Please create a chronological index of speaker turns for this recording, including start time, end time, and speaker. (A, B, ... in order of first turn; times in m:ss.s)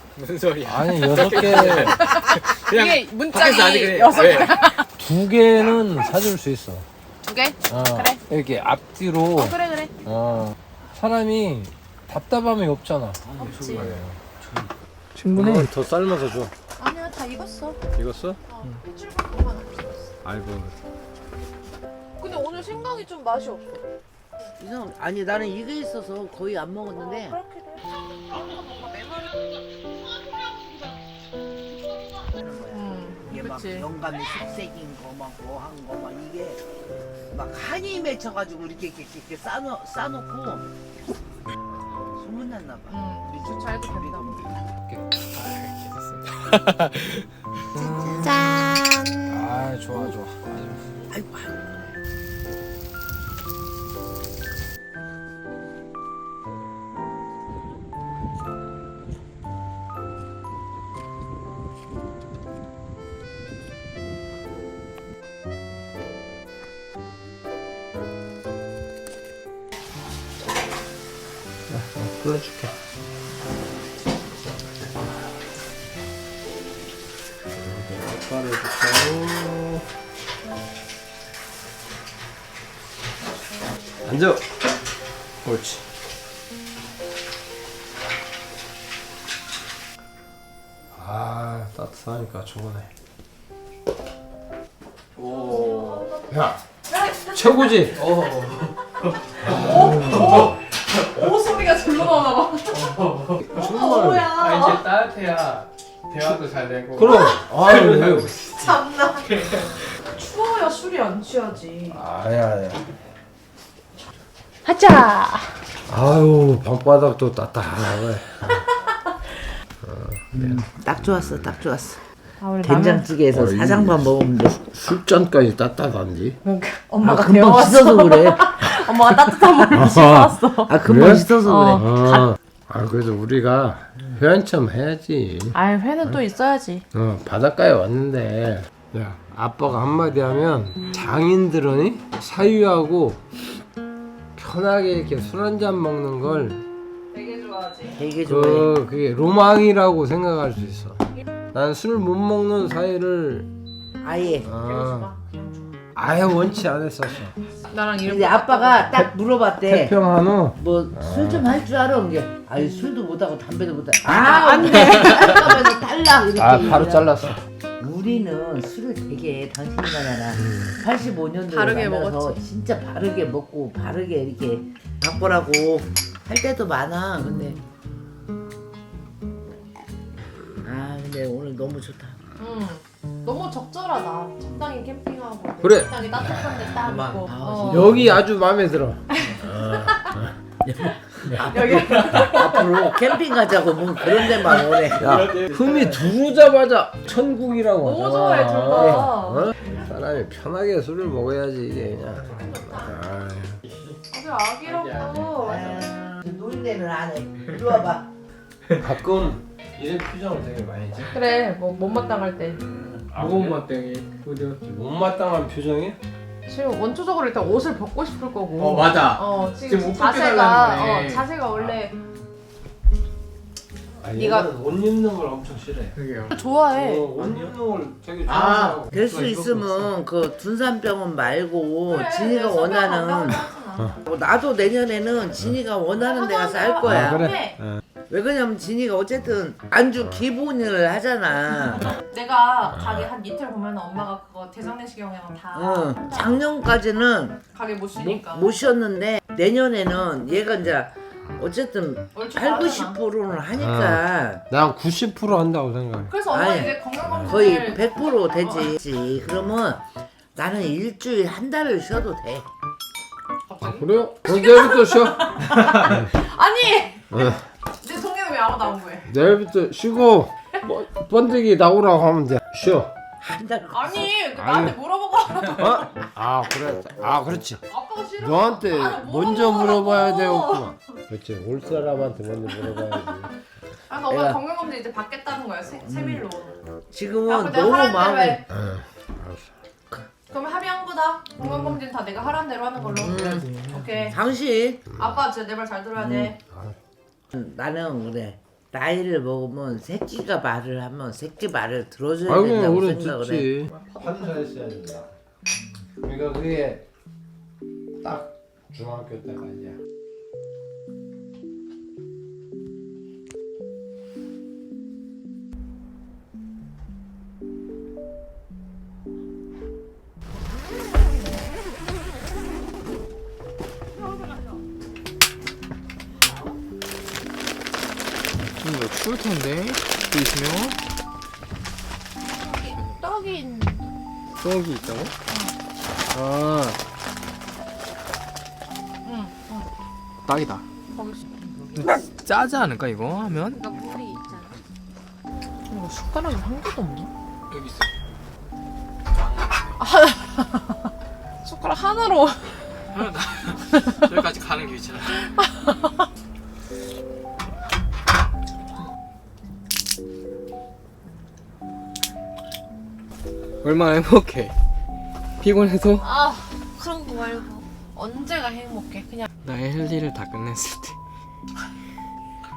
0:00.1-0:04.6 A
0:00.6-0:02.0 B
0:01.7-0:04.9 C
0:05.0-0:06.8 B
0:07.2-0:08.2 C
0:07.7-0:14.2 B
0:09.3-0:09.9 C
0:13.2-0:14.7 D
0:13.4-0:13.9 C
0:15.1-0:15.7 A
0:15.3-0:16.5 B
0:16.8-0:17.8 C
0:17.9-0:18.4 B
0:18.5-0:20.1 C
0:20.2-0:20.8 B
0:22.2-0:23.8 C
0:24.6-0:27.4 D
0:27.0-0:27.9 C
0:32.2-0:36.6 D
0:32.7-0:33.9 C
0:37.3-0:40.7 D
0:42.1-0:44.6 D
0:42.9-0:44.4 C
0:45.3-0:48.2 A
0:48.0-0:49.0 D
0:49.3-0:51.0 B
0:51.1-0:52.0 D
1:11.7-1:12.7 B
1:17.5-1:19.8 B
1:24.0-1:24.6 B
1:25.4-1:25.8 B
1:30.9-1:32.9 B
1:35.2-1:36.0 A
1:35.2-1:37.8 C
1:36.3-1:36.6 B
1:37.3-1:38.0 B
1:37.9-1:41.0 A
1:39.4-1:40.5 B
1:39.4-1:42.9 C
1:42.7-1:43.4 A
1:43.4-1:44.3 B
1:43.5-1:44.8 C
1:44.3-1:48.8 A
1:46.9-1:48.3 B
1:47.0-1:47.5 C
1:48.6-1:52.0 C
1:49.3-1:49.7 A
1:51.9-1:52.9 B
1:54.6-1:55.5 C
1:55.9-1:58.6 B
1:59.8-2:00.6 B
2:00.3-2:02.0 D
2:02.4-2:03.1 C
2:02.6-2:04.6 D
2:03.3-2:06.4 B
2:06.4-2:10.8 C
2:07.0-2:08.8 D
2:09.4-2:10.1 D
2:09.7-2:15.5 B
2:10.7-2:12.3 D
2:11.4-2:11.8 C
2:15.5-2:16.8 C
2:16.9-2:23.2 B
2:24.4-2:26.6 B
2:27.1-2:28.0 C
2:27.9-2:28.7 D
2:28.2-2:31.0 B
2:31.5-2:33.5 B
2:34.0-2:34.5 D
2:34.4-2:35.1 B
2:34.5-2:35.8 C
2:35.9-2:37.4 B
2:37.7-2:38.9 C
2:38.0-2:40.0 D
2:39.7-2:41.4 B
2:40.6-2:47.1 D
2:44.0-2:45.6 C
2:46.4-2:47.4 B
2:47.8-2:57.6 D
2:51.5-2:52.4 C
3:00.6-3:02.2 D
3:02.4-3:08.0 C
3:05.6-3:06.6 B
3:06.8-3:08.2 D
3:07.6-3:10.3 B
3:09.1-3:10.2 C
3:10.7-3:15.4 D
3:10.8-3:13.1 C
3:14.8-3:23.6 B
3:15.0-3:16.1 A
3:17.8-3:19.5 C
3:24.1-3:25.9 C
3:24.6-3:25.3 A
3:25.4-3:28.1 D
3:28.8-3:31.1 B
3:31.1-3:32.6 C
3:33.0-3:33.6 B
3:33.1-3:34.6 A
3:34.6-3:36.0 B
3:36.5-3:41.9 C
3:38.6-3:41.7 A
3:44.0-3:46.0 B
3:44.1-3:44.5 C
3:45.9-3:46.3 A
3:46.3-3:47.1 C
3:46.7-3:49.8 B
3:47.2-3:47.5 A
3:48.2-3:53.5 D
3:51.9-3:54.0 C
3:54.0-3:57.3 D
3:56.0-3:57.6 C
3:56.8-3:57.8 B
3:58.1-4:01.9 D
4:01.9-4:06.3 C
4:05.5-4:07.4 D
4:07.5-4:08.5 C
4:08.0-4:14.4 D
4:12.1-4:13.0 C
4:13.6-4:16.1 B
4:16.1-4:18.6 C
4:16.3-4:22.5 D
4:23.5-4:29.1 C
4:23.6-4:26.1 B
4:27.1-4:27.4 B
4:29.1-4:32.9 B
4:33.2-4:34.1 D
4:33.7-4:36.0 C
4:34.4-4:34.8 B
4:35.5-4:37.6 B
4:37.7-4:41.0 C
4:38.2-4:43.3 B
4:43.9-4:46.6 C
4:44.1-4:44.4 D
4:45.8-4:46.2 D
4:46.9-4:48.4 D
4:47.3-4:48.4 C
4:48.5-4:49.5 B
4:50.3-4:54.2 C
4:53.0-4:54.8 D
4:55.0-4:56.4 C
4:56.0-4:56.3 D
4:56.5-4:56.8 B
4:57.3-5:03.5 D
5:02.2-5:05.1 B
5:03.7-5:04.3 C
5:06.0-5:06.8 B
5:08.0-5:09.8 B
5:28.6-5:30.8 A
5:32.4-5:33.1 A
5:33.0-5:33.8 C
5:34.4-5:35.1 A
5:36.1-5:36.8 A
5:39.0-5:39.7 C
5:40.2-5:40.6 A
5:40.9-5:41.3 C
5:41.8-5:43.6 A
5:43.6-5:44.5 C
5:45.7-5:47.1 C
5:47.5-5:47.9 A
5:49.1-5:49.8 A
5:49.8-5:50.9 C
5:51.4-5:52.7 C
5:52.9-5:55.2 A
5:53.7-5:54.1 C
5:55.2-5:56.0 C
6:03.6-6:04.6 A
6:05.4-6:06.1 A
6:06.0-6:09.2 C
6:09.4-6:11.0 A